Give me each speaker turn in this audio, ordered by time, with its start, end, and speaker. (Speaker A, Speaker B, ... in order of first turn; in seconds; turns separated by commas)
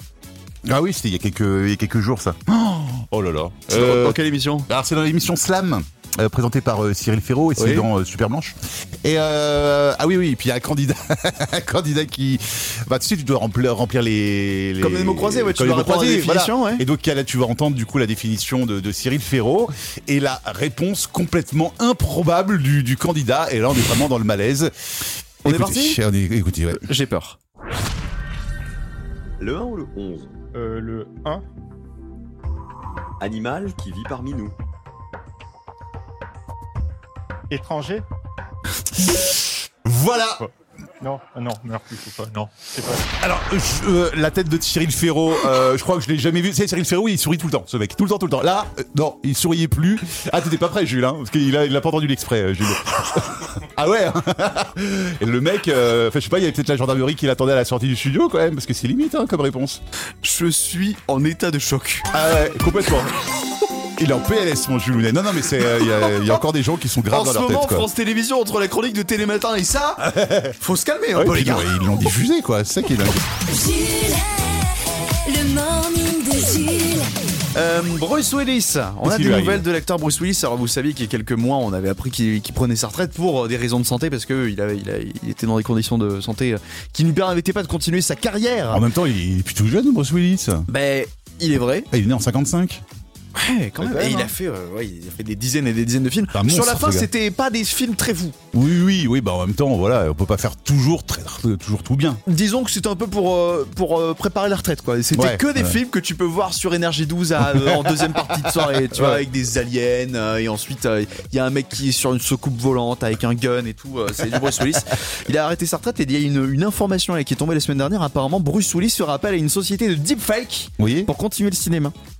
Speaker A: 0.7-24.7, Speaker B: 3.7-4.7, Speaker B: 7.6-7.9, Speaker B: 14.8-16.8, Speaker A: 25.4-26.8, Speaker B: 25.4-26.0, Speaker B: 26.7-27.4, Speaker C: 29.4-30.3, Speaker D: 30.5-31.4, Speaker C: 33.2-34.5, Speaker D: 37.5-38.0, Speaker A: 39.9-40.5, Speaker D: 41.0-43.1, Speaker A: 43.2-59.8, Speaker B: 60.2-62.1, Speaker A: 62.1-63.1, Speaker A: 64.0-67.9, Speaker B: 66.0-66.4, Speaker B: 67.1-71.7, Speaker A: 70.0-70.5, Speaker A: 71.2-73.2, Speaker E: 73.5-74.7, Speaker E: 75.2-77.1, Speaker B: 77.5-88.8, Speaker A: 79.0-79.7, Speaker A: 88.7-90.7, Speaker B: 90.7-91.9, Speaker A: 91.9-92.8, Speaker B: 93.3-98.4, Speaker A: 93.8-94.3, Speaker A: 96.3-97.1, Speaker A: 98.5-102.2, Speaker B: 102.3-122.0, Speaker A: 105.1-105.8, Speaker A: 107.5-107.9, Speaker A: 108.5-109.2, Speaker A: 120.8-121.1